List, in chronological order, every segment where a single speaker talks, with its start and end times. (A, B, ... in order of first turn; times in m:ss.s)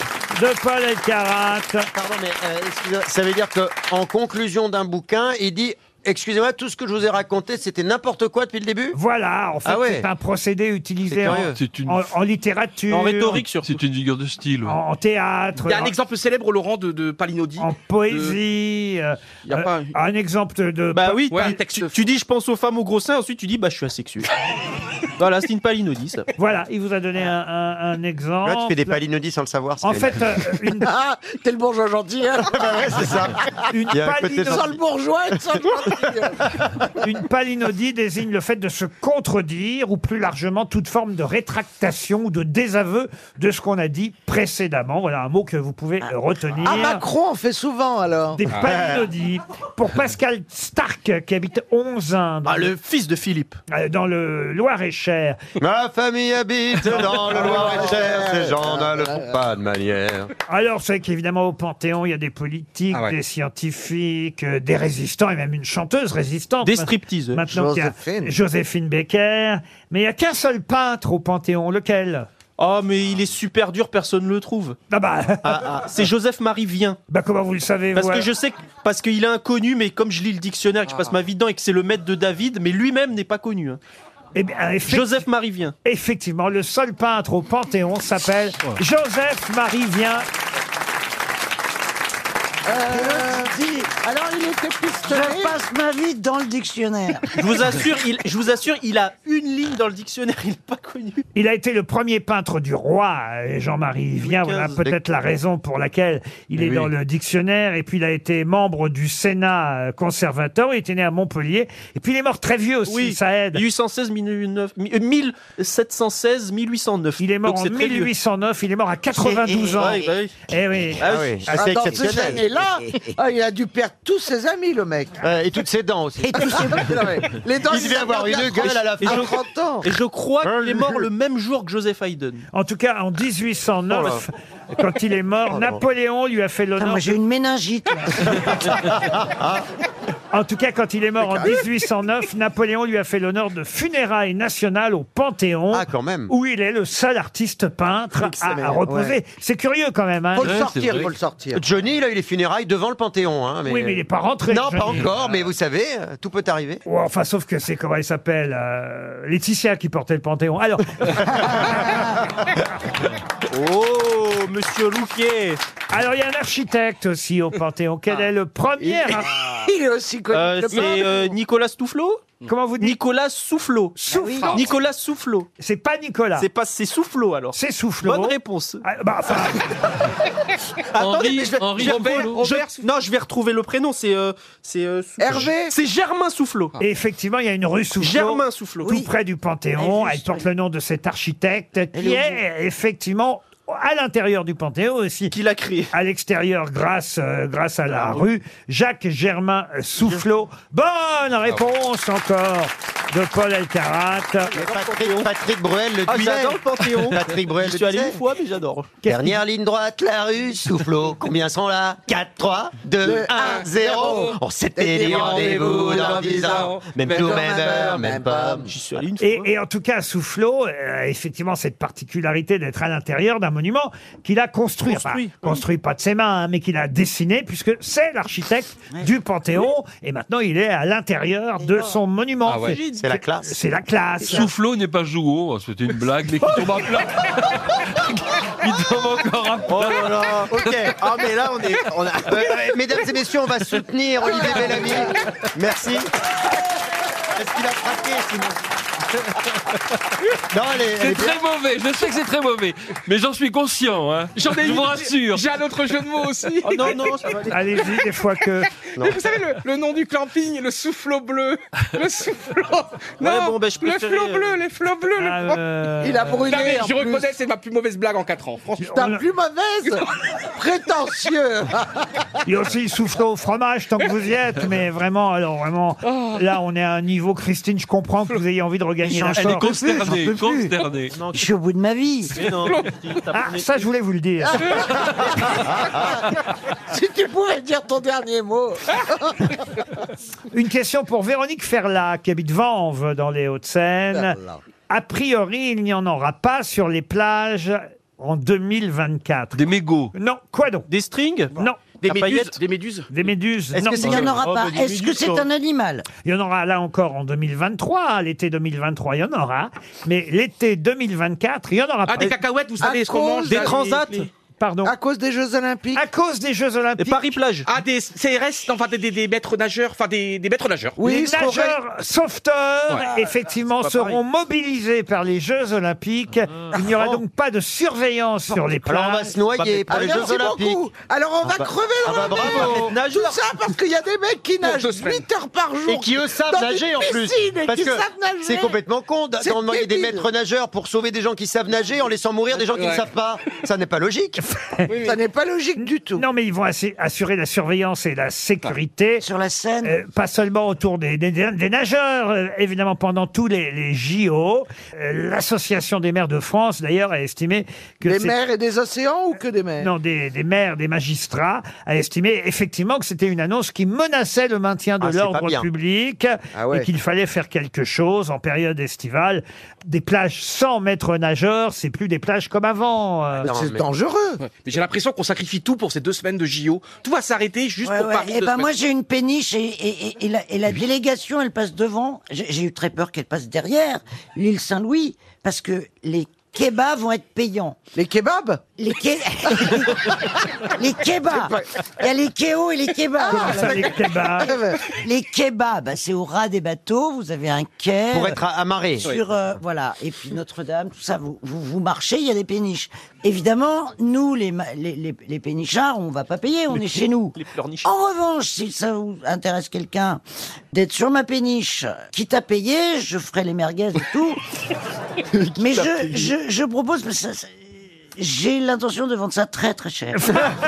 0:00.4-0:01.9 A
0:01.9-0:09.0 B
0:08.9-0:13.4 A
0:09.6-0:10.1 B
0:11.1-0:11.6 B
0:11.4-0:12.0 C
0:12.9-0:13.8 D
0:13.6-0:14.8 C
0:14.6-0:16.0 A
0:15.6-0:18.4 E
0:17.6-0:21.6 A
0:19.5-0:19.9 E
0:20.9-0:24.3 D
0:21.3-0:22.0 E
0:25.2-0:26.3 D
0:26.4-0:29.0 A
0:28.4-0:30.3 B
0:29.8-0:30.9 A
0:30.8-0:32.7 F
0:32.5-0:34.8 B
0:33.7-0:34.7 A
0:34.4-0:36.4 F
0:35.3-0:35.7 B
0:37.0-0:47.0 A
0:46.6-0:48.4 F
0:48.4-0:52.7 A
0:48.6-0:49.0 B
0:52.4-0:53.6 D
0:53.7-0:55.4 A
0:55.6-1:00.3 B
0:57.1-0:59.3 F
1:00.5-1:12.3 A
1:06.6-1:07.4 D
1:07.5-1:08.3 F
1:12.6-1:14.8 D
1:14.9-1:15.7 A
1:15.4-1:15.9 B
1:15.9-1:17.0 D
1:17.1-1:18.3 A
1:18.0-1:23.8 D
1:24.4-1:25.2 A
1:24.9-1:25.8 D
1:25.8-1:30.3 A
1:32.7-1:35.6 F
1:32.9-1:33.9 G
1:35.0-1:37.3 G
1:37.4-1:41.2 D
1:41.4-1:53.6 A
1:44.2-1:44.8 D
1:46.6-1:46.9 B
1:52.9-1:58.1 D
1:57.2-2:01.0 A
1:59.8-2:00.3 D
2:01.0-2:01.4 D
2:01.0-2:02.4 B
2:01.5-2:05.1 F
2:01.9-2:03.1 G
2:05.2-2:06.8 B
2:06.2-2:07.0 G
2:06.5-2:09.8 F
2:07.7-2:09.4 B
2:09.0-2:12.4 D
2:10.4-2:11.0 B
2:12.5-2:17.1 A
2:13.9-2:14.2 B
2:15.5-2:15.8 B
2:16.8-2:18.5 G
2:18.2-2:19.6 B
2:20.3-2:30.6 A
2:21.2-2:21.6 F
2:25.7-2:26.3 B
2:28.2-2:29.2 F
2:30.4-2:31.6 F
2:30.4-2:31.1 C
2:31.6-2:36.8 B
2:33.7-2:35.1 A
2:36.8-2:41.9 A
2:43.5-2:45.6 D
2:45.9-2:49.3 A
2:48.8-2:51.2 F
2:50.3-2:55.5 D
2:52.5-2:53.0 A
2:54.0-2:54.6 A
2:54.1-2:54.6 G
2:55.6-2:56.5 A
2:56.4-2:58.8 D
2:57.5-2:59.7 A
3:00.9-3:06.8 D
3:01.0-3:02.5 C
3:01.8-3:02.8 E
3:05.2-3:05.7 F
3:06.8-3:15.4 A
3:08.0-3:09.0 D
3:08.8-3:09.1 G
3:09.8-3:10.5 G
3:11.9-3:12.4 G
3:15.3-3:15.9 D
3:15.9-3:24.6 A
3:17.9-3:18.2 D
3:24.6-3:25.3 D
3:24.6-3:28.2 B
3:26.1-3:28.9 D
3:29.0-3:29.4 A
3:29.1-3:38.7 B
3:33.0-3:38.7 F
3:35.5-3:37.0 C
3:38.7-3:39.5 D
3:39.2-3:54.5 A
3:44.9-3:45.6 D
3:51.6-3:52.0 G
3:52.5-3:53.0 D
3:53.0-3:53.6 B
3:54.2-4:00.7 C
3:59.8-4:00.2 D
3:59.9-4:06.1 B
4:01.3-4:01.9 D
4:07.4-4:08.6 B
4:10.5-4:11.4 B
4:11.0-4:15.6 C
4:14.4-4:17.0 E
4:16.6-4:17.6 D
4:17.5-4:18.7 A
4:19.0-4:25.6 E
4:23.2-4:24.6 D
4:25.2-4:26.6 A
4:26.0-4:27.3 F
4:26.5-4:29.0 E
4:28.8-4:29.2 A
4:28.9-4:30.0 F
4:30.6-4:32.2 F
4:32.5-4:39.7 A
4:39.3-4:41.2 C
4:39.4-4:40.8 G
4:41.2-4:41.5 D
4:41.3-4:42.3 G
4:42.3-4:43.9 D
4:43.3-4:44.8 A
4:45.5-4:46.0 F
4:46.9-4:49.3 F
4:50.5-4:54.4 A
4:54.1-4:54.6 F
4:54.9-5:00.9 A
4:59.5-5:00.1 C
5:00.9-5:02.6 D
5:01.5-5:01.8 A
5:02.0-5:03.1 E
5:03.1-5:04.3 A
5:03.8-5:04.2 B
5:04.0-5:06.1 G
5:04.1-5:05.4 D
5:04.2-5:05.2 C
5:06.2-5:12.4 A
5:12.1-5:14.3 E
5:12.8-5:13.8 F
5:13.5-5:14.3 D
5:14.6-5:14.9 A
5:14.8-5:16.0 F
5:15.9-5:17.2 A
5:17.0-5:17.7 D
5:17.7-5:21.0 E
5:21.0-5:21.8 F
5:21.0-5:29.4 A
5:23.8-5:24.1 D
5:26.9-5:27.2 B
5:28.8-5:30.8 B
5:29.8-5:38.8 F
5:31.4-5:33.0 B
5:32.3-5:33.4 D
5:34.6-5:35.2 E
5:35.9-5:44.4 B
5:39.4-5:40.2 F
5:42.5-5:43.0 E
5:44.6-5:44.9 A
5:44.9-5:45.2 E
5:45.0-5:46.2 F
5:46.2-5:49.2 A
5:49.2-5:50.0 G
5:49.8-5:58.4 A
5:58.0-5:59.9 F
5:59.8-6:13.5 A
6:05.0-6:05.7 B
6:06.5-6:06.9 F
6:13.4-6:13.9 B
6:13.4-6:14.4 F
6:14.4-6:18.7 E
6:17.8-6:27.8 G
6:28.0-6:28.6 F
6:28.8-6:30.2 G
6:30.7-6:33.9 G
6:31.3-6:31.6 F
6:33.3-6:34.5 A
6:33.3-6:34.8 F
6:35.0-6:38.4 G
6:38.1-6:39.2 B
6:39.0-6:50.2 G
6:46.7-6:47.9 D
6:50.7-6:54.4 G
6:55.4-6:56.3 D
6:55.6-7:00.5 G